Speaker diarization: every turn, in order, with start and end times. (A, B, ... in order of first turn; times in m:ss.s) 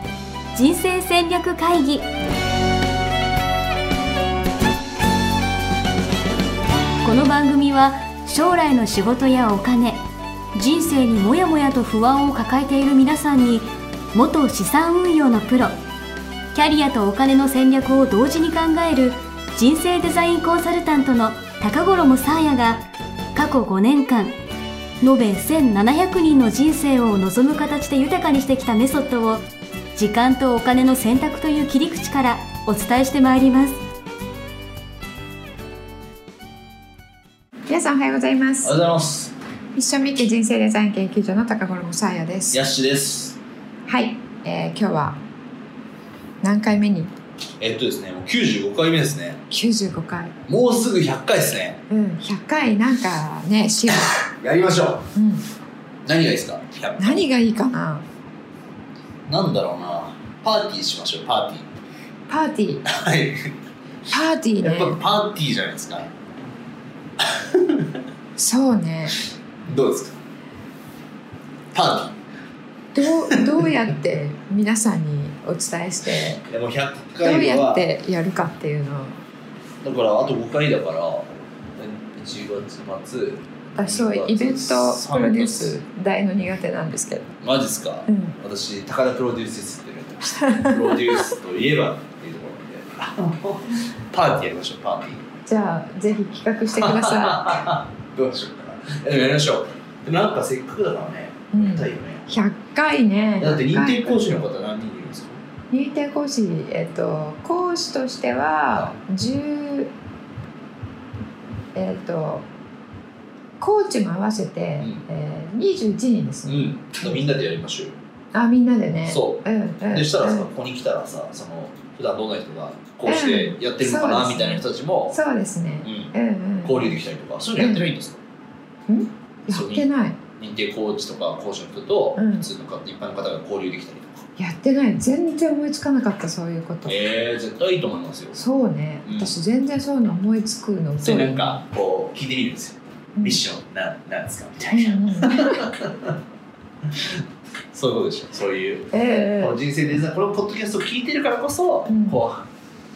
0:00.5-0:02.1 A
0:07.0-0:10.0 A
0:10.5-0:15.8 A
0:16.5-0:24.3 A
0:25.0-0:29.4 A
0:30.0-0:33.8 A
0:37.7-0:38.7 B
0:38.6-0:39.3 C
0:39.7-0:42.6 B
0:42.5-0:43.4 C
0:43.8-0:45.2 B
0:46.4-0:47.1 B
0:47.6-0:49.4 C
0:49.5-0:50.4 B
0:50.4-0:51.8 C
0:51.9-0:54.2 B
0:54.0-0:55.1 C
0:55.1-0:55.4 B
0:56.0-0:57.2 C
0:57.0-0:58.0 B
0:59.3-1:01.7 C
1:02.3-1:02.9 B
1:02.8-1:03.5 C
1:04.1-1:05.0 B
1:04.6-1:06.1 C
1:07.2-1:07.9 C
1:08.4-1:09.2 B
1:09.6-1:10.2 C
1:11.7-1:12.2 C
1:12.9-1:16.4 B
1:13.2-1:13.7 C
1:16.4-1:17.8 C
1:17.2-1:19.2 B
1:19.8-1:25.8 C
1:23.7-1:27.3 B
1:27.4-1:35.2 C
1:28.1-1:28.4 B
1:30.4-1:31.3 B
1:35.4-1:37.7 B
1:36.8-1:42.3 C
1:41.5-1:44.4 B
1:43.4-1:45.4 C
1:45.7-1:49.9 B
1:51.7-1:52.4 B
1:53.6-1:57.2 B
1:54.8-1:55.0 C
1:56.4-1:57.9 C
1:58.3-2:00.5 B
1:59.0-2:05.2 C
2:03.0-2:06.9 B
2:05.8-2:06.1 C
2:06.6-2:08.2 C
2:07.6-2:07.9 B
2:08.9-2:10.2 B
2:09.5-2:14.2 C
2:12.2-2:12.5 B
2:14.4-2:17.0 B
2:16.8-2:18.4 C
2:18.3-2:21.6 B
2:19.0-2:19.3 C
2:21.0-2:26.2 C
2:23.2-2:23.4 B
2:24.7-2:25.7 B
2:26.8-2:32.5 C
2:28.9-2:29.6 B
2:31.9-2:32.2 B